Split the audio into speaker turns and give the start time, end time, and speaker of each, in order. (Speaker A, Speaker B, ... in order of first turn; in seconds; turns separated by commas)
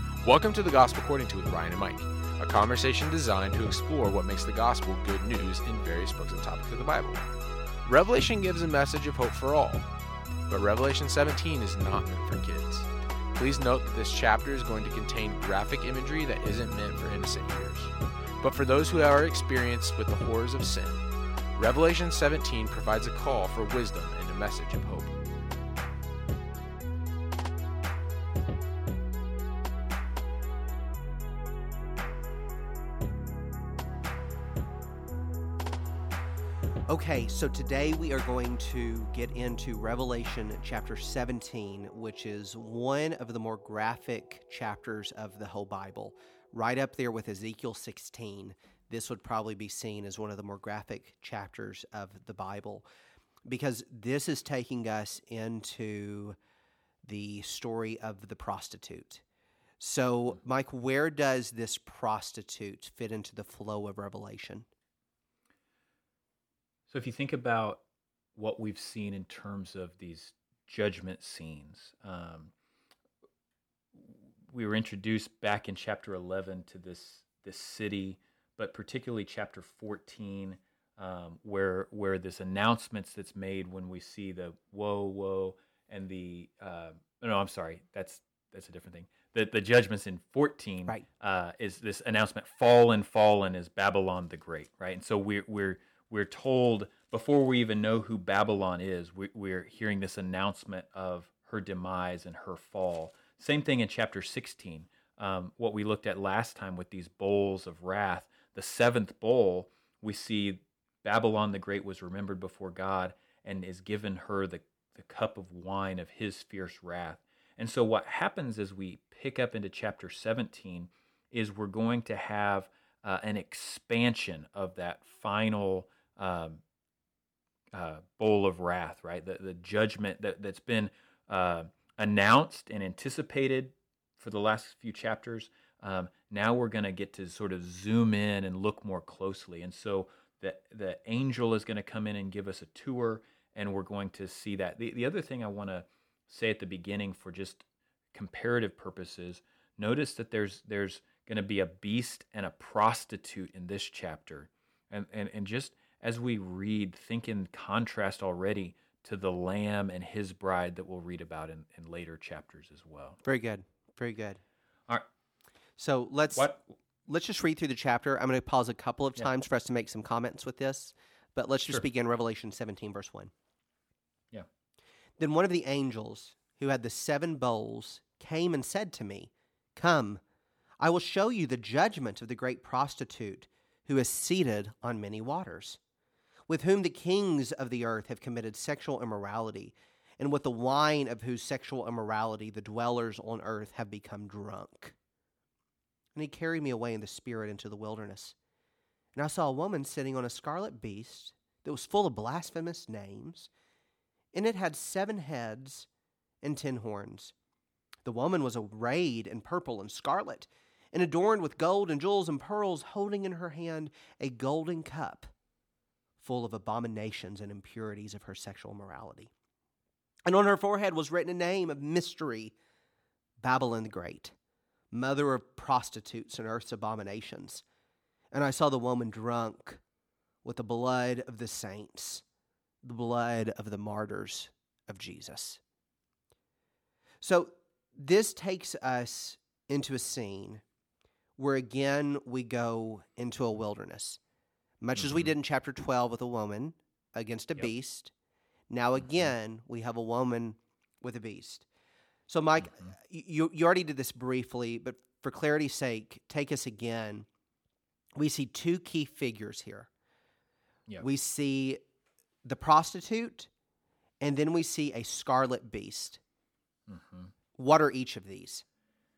Speaker A: 0.2-7.2, Speaker A: 7.8-9.9, Speaker A: 10.5-25.2, Speaker B: 36.9-52.9, Speaker B: 53.5-56.4, Speaker B: 57.0-59.2, Speaker B: 59.8-64.7, Speaker C: 66.9-67.8, Speaker C: 68.3-72.5, Speaker C: 73.9-126.6, Speaker C: 127.7-163.2, Speaker B: 163.2-164.4, Speaker B: 165.8-173.3, Speaker C: 166.4-166.6, Speaker B: 175.2-180.2, Speaker B: 180.8-185.8, Speaker B: 186.5-194.9, Speaker B: 196.2-198.3, Speaker B: 199.2-203.5, Speaker B: 204.3-205.9, Speaker B: 206.4-207.3, Speaker B: 208.1-215.3, Speaker B: 216.2-219.3, Speaker B: 220.3-222.5, Speaker B: 223.4-224.3, Speaker B: 224.9-227.6, Speaker B: 228.3-229.8, Speaker B: 230.4-232.2, Speaker B: 232.8-235.6, Speaker B: 237.2-240.6, Speaker B: 241.4-244.2, Speaker B: 244.8-248.1, Speaker C: 245.0-245.3, Speaker B: 248.7-251.7, Speaker B: 252.3-257.3, Speaker B: 258.2-259.9, Speaker B: 261.0-261.8, Speaker B: 262.4-263.5, Speaker B: 264.2-266.2, Speaker C: 266.9-267.3, Speaker B: 267.6-268.6